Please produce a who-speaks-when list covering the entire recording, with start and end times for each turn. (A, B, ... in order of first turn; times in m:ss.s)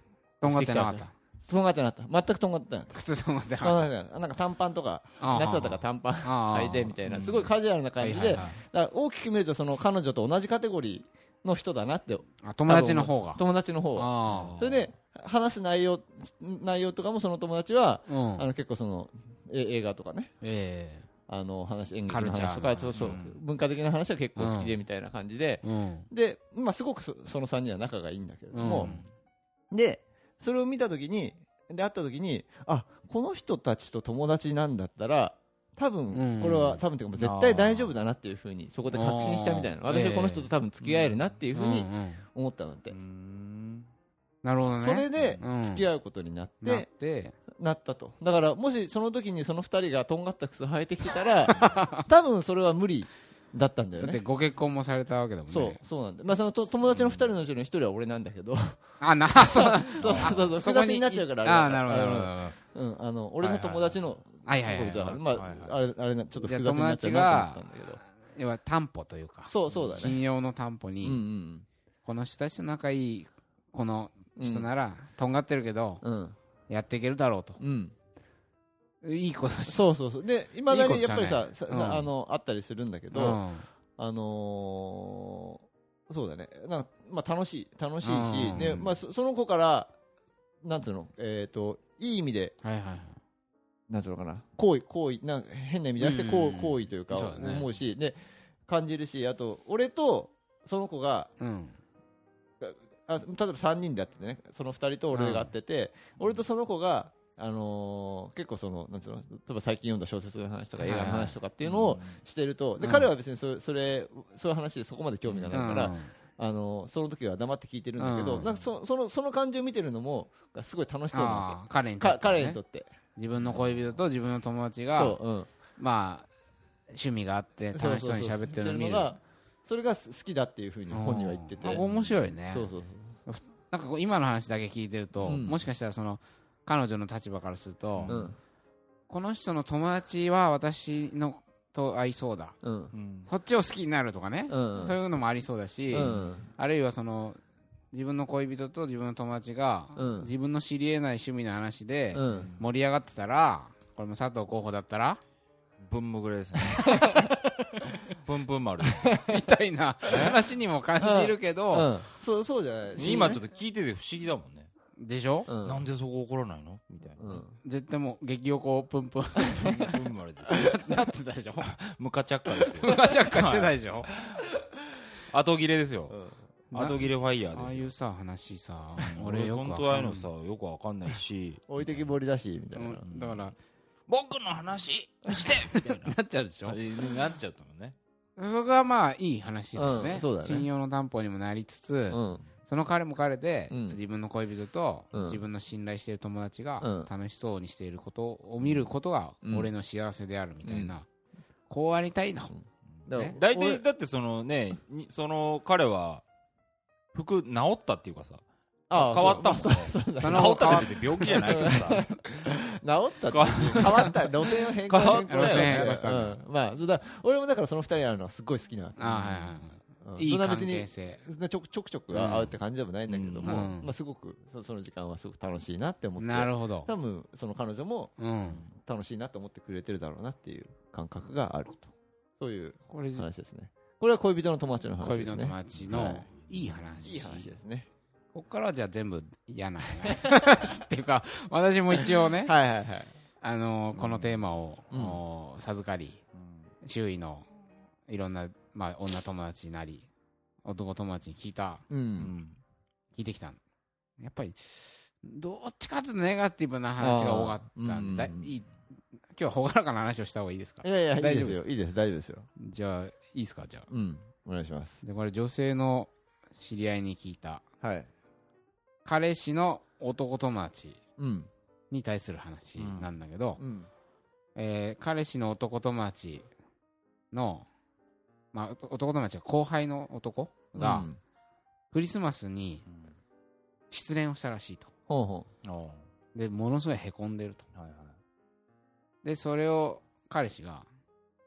0:00.4-0:03.0 A
0:00.4-0:01.1 B
0:02.9-0:03.9 B
0:03.6-0:20.3 A
0:05.2-0:07.0 B
0:07.1-0:07.5 C
0:08.0-0:08.6 B
0:12.4-0:13.4 B
0:14.0-0:14.6 B
0:14.2-0:14.9 C
0:18.1-0:18.5 B
0:20.4-0:21.1 B
0:21.3-0:29.0 A
0:22.1-0:23.2 B
0:22.9-0:23.4 C
0:24.4-0:24.7 B
0:25.6-0:26.1 B
0:28.5-0:29.0 B
0:28.6-0:29.0 C
0:29.7-0:42.9 A
0:36.1-0:36.8 B
0:37.2-0:38.0 C
0:38.9-0:40.5 B
0:40.8-0:41.3 C
0:41.5-0:42.2 B
0:42.9-0:43.9 C
0:44.4-0:45.9 B
0:44.6-0:46.9 A
0:45.2-0:45.4 C
0:46.6-0:47.3 B
0:47.6-0:54.2 A
0:51.5-0:51.9 C
0:51.5-0:52.0 B
0:54.0-0:55.8 B
0:55.5-0:58.8 A
0:56.9-0:57.3 C
0:59.0-1:02.6 B
0:59.4-1:08.0 A
1:00.0-1:00.5 C
1:03.4-1:05.2 B
1:05.3-1:05.8 C
1:06.4-1:11.2 B
1:09.5-1:10.2 A
1:11.0-1:11.6 A
1:12.0-1:16.0 B
1:14.4-1:14.7 A
1:16.0-1:16.4 A
1:16.7-1:17.6 B
1:17.6-1:17.9 A
1:19.0-1:19.8 B
1:19.7-1:23.4 A
1:20.7-1:22.1 B
1:23.1-1:23.7 B
1:24.0-1:29.9 A
1:28.0-1:28.8 B
1:30.6-1:32.5 A
1:32.6-1:33.2 B
1:33.9-1:41.3 A
1:36.0-1:37.7 B
1:41.4-1:41.8 B
1:42.6-2:02.9 A
1:45.1-1:45.5 B
1:50.8-1:51.4 B
1:51.6-1:52.2 C
1:52.8-1:53.1 B
1:55.2-1:55.7 C
1:55.5-1:56.1 B
1:58.0-1:58.4 B
2:01.1-2:02.6 B
2:03.2-2:05.2 B
2:03.4-2:04.0 C
2:04.9-2:05.5 A
2:05.8-2:06.3 B
2:06.9-2:09.1 B
2:07.7-2:11.8 A
2:10.9-2:12.7 B
2:11.6-2:12.3 C
2:12.5-2:13.1 A
2:13.3-2:18.2 B
2:15.2-2:15.6 A
2:18.0-2:18.3 C
2:18.1-2:18.4 A
2:19.1-2:22.6 B
2:22.6-2:22.9 A
2:22.9-2:23.3 C
2:23.3-2:27.4 B
2:24.5-2:25.0 A
2:25.9-2:26.4 A
2:25.9-2:26.3 C
2:27.9-2:35.2 B
2:30.0-2:30.3 A
2:32.1-2:32.5 A
2:32.3-2:32.7 C
2:35.8-2:37.2 C
2:36.7-2:37.3 A
2:38.1-2:39.2 C
2:39.0-2:39.3 A
2:39.1-2:41.9 B
2:40.1-2:40.4 C
2:41.0-2:43.4 A
2:43.0-2:44.7 C
2:43.0-2:43.3 B
2:45.0-2:45.5 B
2:45.5-2:45.8 A
2:45.6-2:47.4 C
2:47.2-2:47.5 A
2:47.6-2:51.7 B
2:49.6-2:50.8 C
2:51.6-2:54.4 C
2:52.6-2:54.1 B
2:55.2-2:56.1 C
2:56.1-2:56.4 A
2:56.7-2:57.9 C
2:56.7-2:57.0 B
2:57.5-3:00.3 B
2:59.0-3:02.1 C
3:01.7-3:03.0 A
3:02.7-3:03.5 B
3:03.0-3:03.5 C
3:04.1-3:08.0 C
3:05.3-3:06.8 B
3:08.4-3:21.1 B
3:09.8-3:10.7 A
3:12.1-3:12.4 A
3:13.7-3:14.0 A
3:15.1-3:15.4 A
3:16.8-3:17.1 A
3:19.4-3:19.7 A
3:20.6-3:20.9 A
3:21.7-3:22.5 B
3:22.5-3:23.8 A
3:23.3-3:26.2 C
3:27.1-3:28.4 C
3:28.9-3:39.0 A
3:28.9-3:32.4 C
3:29.2-3:29.5 B
3:30.2-3:31.8 B
3:33.3-3:34.3 C
3:34.9-3:36.0 C
3:35.0-3:36.4 B
3:39.0-3:41.2 B
3:39.0-3:39.6 C
3:40.0-3:48.1 A
3:42.1-3:42.5 B
3:43.1-3:43.7 C
3:43.4-3:43.9 B
3:46.2-3:46.9 B
3:48.2-3:48.6 B
3:48.7-3:56.3 A
3:52.9-3:53.2 B
3:55.0-3:57.5 B
3:55.7-3:56.8 C
3:57.0-3:57.9 A
3:58.3-4:02.5 B
4:02.0-4:03.1 A
4:03.4-4:06.2 B
4:03.9-4:04.4 C
4:04.9-4:05.2 A
4:06.3-4:06.7 C
4:06.8-4:07.5 B
4:08.1-4:10.1 B
4:10.6-4:11.8 B
4:11.9-4:12.3 A
4:12.2-4:12.6 C
4:13.2-4:13.6 B
4:14.2-4:18.7 B
4:17.0-4:18.5 A
4:19.3-4:21.6 B
4:20.8-4:22.5 A
4:22.6-4:23.9 B
4:23.9-4:25.0 A
4:25.0-4:27.6 B
4:27.8-4:28.1 A
4:29.0-4:31.0 B
4:31.2-4:31.5 A
4:31.9-4:33.6 B
4:32.8-4:33.1 C
4:33.6-4:33.9 A
4:34.5-4:36.5 B
4:37.3-4:37.7 B
4:38.5-4:41.1 B
4:40.8-4:41.2 A
4:41.9-4:42.8 B
4:43.9-4:44.9 B
4:45.1-4:45.5 A
4:45.6-4:46.1 C
4:46.3-4:47.6 B
4:47.7-4:48.2 C
4:49.2-4:50.9 B